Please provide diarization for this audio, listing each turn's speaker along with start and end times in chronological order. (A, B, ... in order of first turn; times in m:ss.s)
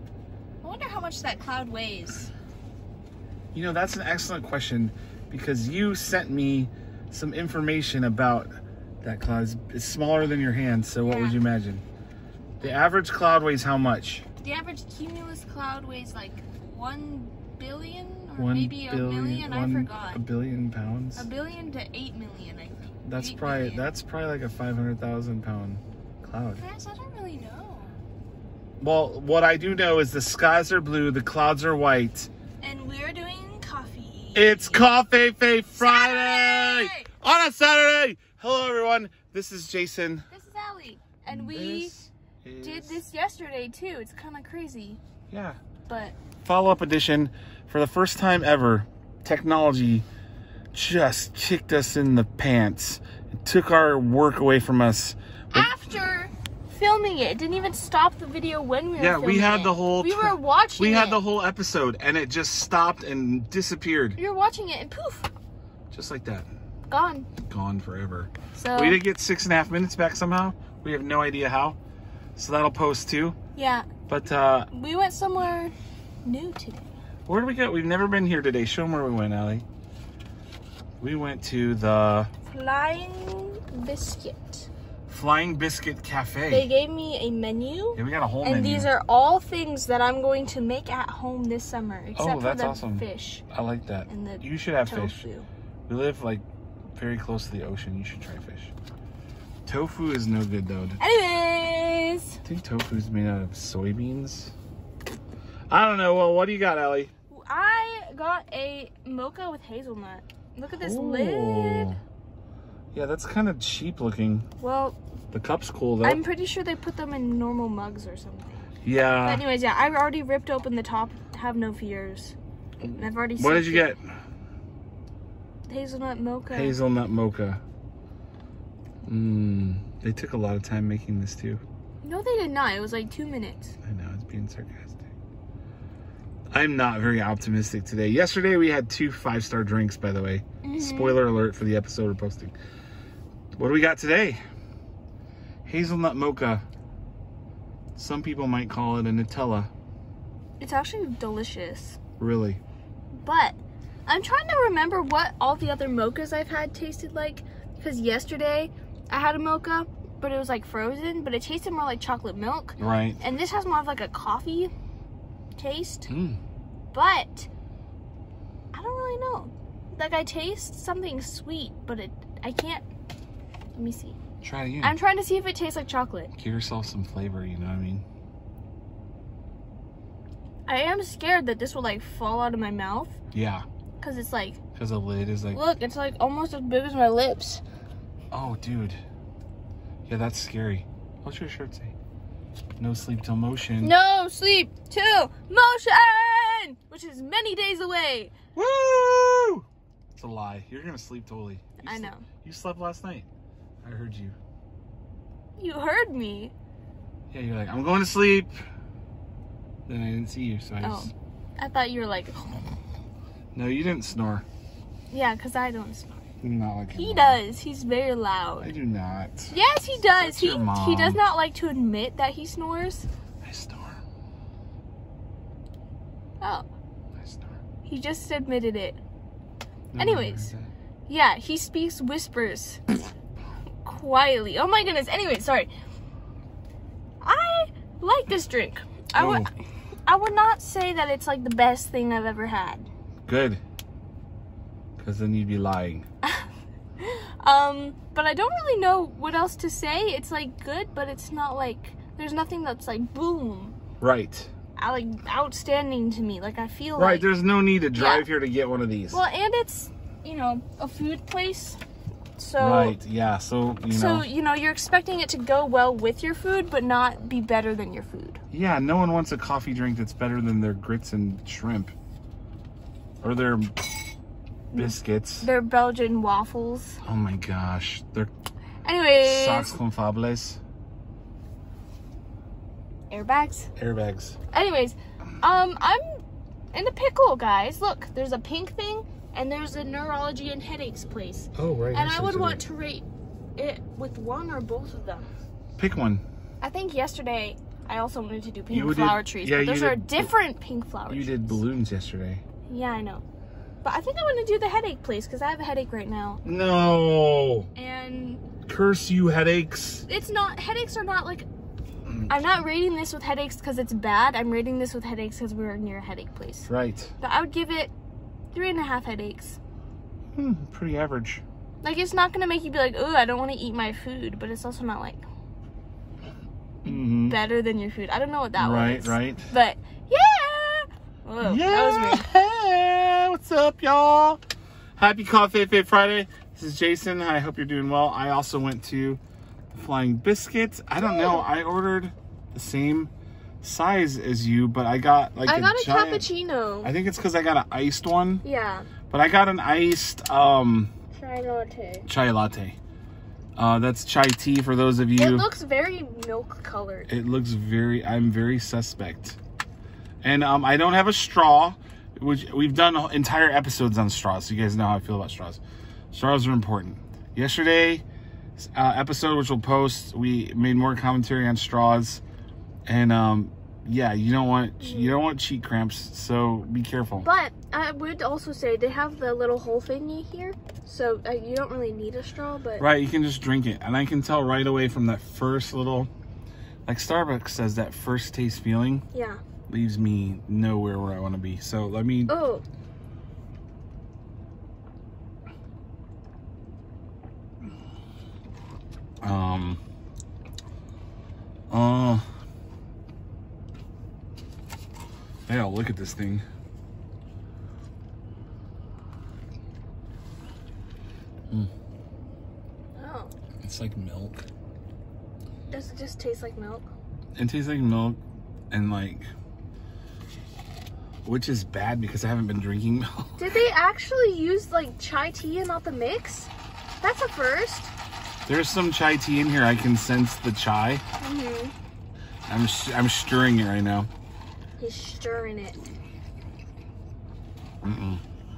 0:00.6-0:02.3 A
0:03.5-0:11.8 B
0:11.0-0:11.4 A
0:12.6-0:14.3 B
0:14.4-0:20.2 A
0:18.4-0:21.3 B
0:21.2-0:23.9 A
0:23.0-0:26.6 B
0:26.6-0:28.0 A
0:28.8-0:32.3 B
0:32.6-0:34.9 A
0:34.4-0:40.3 B
0:35.7-0:37.1 A
0:40.3-0:42.0 A
0:41.3-0:43.0 B
0:42.6-0:45.0 A
0:45.3-0:45.6 B
0:45.9-0:46.2 A
0:46.4-0:50.1 B
0:50.7-0:55.7 B
0:55.5-1:01.2 A
0:59.0-1:04.2 B
1:04.2-1:05.3 A
1:05.9-1:06.5 B
1:06.9-1:07.3 A
1:07.4-1:11.8 B
1:08.6-1:09.0 A
1:12.4-1:13.4 B
1:13.6-1:13.9 A
1:14.1-1:14.7 B
1:14.7-1:16.9 A
1:17.3-1:19.7 B
1:21.0-1:22.3 B
1:22.5-1:24.7 A
1:25.1-1:26.7 B
1:26.5-1:33.4 A
1:28.0-1:28.9 B
1:32.2-1:35.2 B
1:34.1-1:35.5 A
1:35.9-1:38.7 B
1:39.7-1:41.0 B
1:41.0-1:42.4 A
1:42.4-1:44.5 B
1:45.7-1:47.1 B
1:47.3-1:52.0 A
1:50.7-1:52.0 B
1:52.9-1:54.5 B
1:54.6-1:55.0 A
1:55.3-1:56.2 B
1:56.0-1:58.6 A
1:58.8-1:59.5 B
1:59.2-2:03.9 A
2:03.4-2:04.2 B
2:05.7-2:06.8 A
2:06.5-2:07.6 B
2:09.1-2:11.6 B
2:12.0-2:13.8 A
2:13.8-2:15.1 B
2:16.5-2:22.6 B
2:20.6-2:21.2 A
2:23.6-2:24.4 B
2:25.6-2:26.6 B
2:28.0-2:29.7 B
2:30.6-2:32.0 A
2:32.2-2:32.6 B
2:33.2-2:44.7 A
2:42.8-2:43.2 B
2:45.6-2:46.1 A
2:46.1-2:46.4 B
2:46.9-2:47.5 A
2:48.7-2:52.9 A
2:53.8-2:54.2 A
2:54.4-2:55.0 B
2:54.8-2:56.3 A
2:56.3-2:58.0 B
3:00.7-3:03.2 A
3:03.3-3:03.7 B
3:04.0-3:04.6 A
3:04.7-3:05.6 B
3:05.5-3:07.6 A
3:08.3-3:09.0 B
3:10.1-3:12.0 B
3:12.8-3:13.9 B
3:13.8-3:18.3 A
3:18.6-3:23.3 B
3:21.8-3:22.3 A
3:23.8-3:24.4 B
3:25.6-3:26.5 A
3:27.3-3:28.5 B
3:29.9-3:31.1 B
3:30.8-3:32.6 A
3:33.5-3:34.4 B
3:35.1-3:36.2 A
3:36.4-3:37.4 B
3:36.9-3:38.7 A
3:38.6-3:39.6 B
3:39.5-3:43.1 A
3:40.1-3:41.2 B
3:43.4-3:44.0 B
3:46.4-3:46.7 A
3:47.2-3:47.6 B
3:47.9-3:49.0 A
3:49.9-3:50.7 B
3:50.0-3:50.5 A
3:51.1-3:52.8 A
3:53.8-3:55.7 A
3:57.2-3:59.5 A
3:59.2-3:59.5 B
4:00.1-4:02.9 A
4:03.3-4:03.6 B
4:05.0-4:06.1 B
4:07.0-4:13.8 A
4:14.0-4:14.5 B
4:14.8-4:17.3 A
4:17.0-4:19.2 B
4:17.9-4:18.3 A
4:19.1-4:21.8 A
4:22.4-4:23.0 A
4:22.6-4:24.3 B
4:23.9-4:28.4 A
4:28.5-4:31.9 B
4:33.2-4:33.9 B
4:34.7-4:37.0 A
4:34.7-4:35.5 B
4:37.0-4:38.3 B
4:38.8-4:39.7 A
4:39.2-4:40.6 B
4:43.1-4:43.7 A
4:43.8-4:44.4 B
4:44.5-4:46.0 A
4:46.7-4:55.3 A
4:51.6-4:52.6 B
4:55.8-4:56.2 B
4:56.6-5:01.6 A
4:58.7-5:00.3 B
5:01.1-5:02.4 B
5:02.7-5:03.2 A
5:03.8-5:06.4 A
5:06.4-5:07.7 B
5:07.8-5:08.4 A
5:08.6-5:10.1 B
5:10.1-5:11.5 A
5:12.3-5:16.7 A
5:16.6-5:17.1 B
5:17.2-5:17.9 A
5:18.5-5:19.6 A
5:20.4-5:21.4 B
5:21.8-5:25.2 A
5:26.8-5:27.4 B
5:26.8-5:32.3 A
5:28.6-5:29.5 B
5:31.4-5:34.4 B
5:35.0-5:39.2 B
5:39.7-5:43.1 B
5:41.0-5:41.5 A
5:43.6-5:46.3 B
5:45.4-5:46.9 A
5:46.8-5:48.4 B
5:48.4-5:48.9 A
5:49.1-5:50.9 B
5:51.1-5:52.1 A
5:52.1-5:52.8 B
5:53.6-5:55.5 B
5:55.2-5:57.1 A
5:57.1-5:59.4 B
6:00.2-6:05.6 B
6:06.1-6:08.0 B
6:08.6-6:12.2 B
6:12.9-6:17.3 B
6:14.8-6:15.2 A
6:17.2-6:22.8 A
6:22.8-6:26.1 B
6:26.9-6:29.0 B
6:29.1-6:29.4 A
6:29.7-6:32.4 B
6:32.3-6:32.6 A
6:39.2-6:39.8 B
6:41.7-6:42.2 B
6:45.5-6:46.4 B
6:53.0-6:53.3 A
6:53.6-6:54.5 B
6:55.7-6:56.9 A
6:57.4-6:58.2 B
6:58.7-6:59.3 B
7:01.2-7:03.4 B
7:03.4-7:06.5 A
7:07.0-7:07.9 A
7:08.5-7:11.0 B
7:11.2-7:11.7 A
7:12.5-7:14.1 B
7:14.8-7:15.8 A
7:17.8-7:18.2 B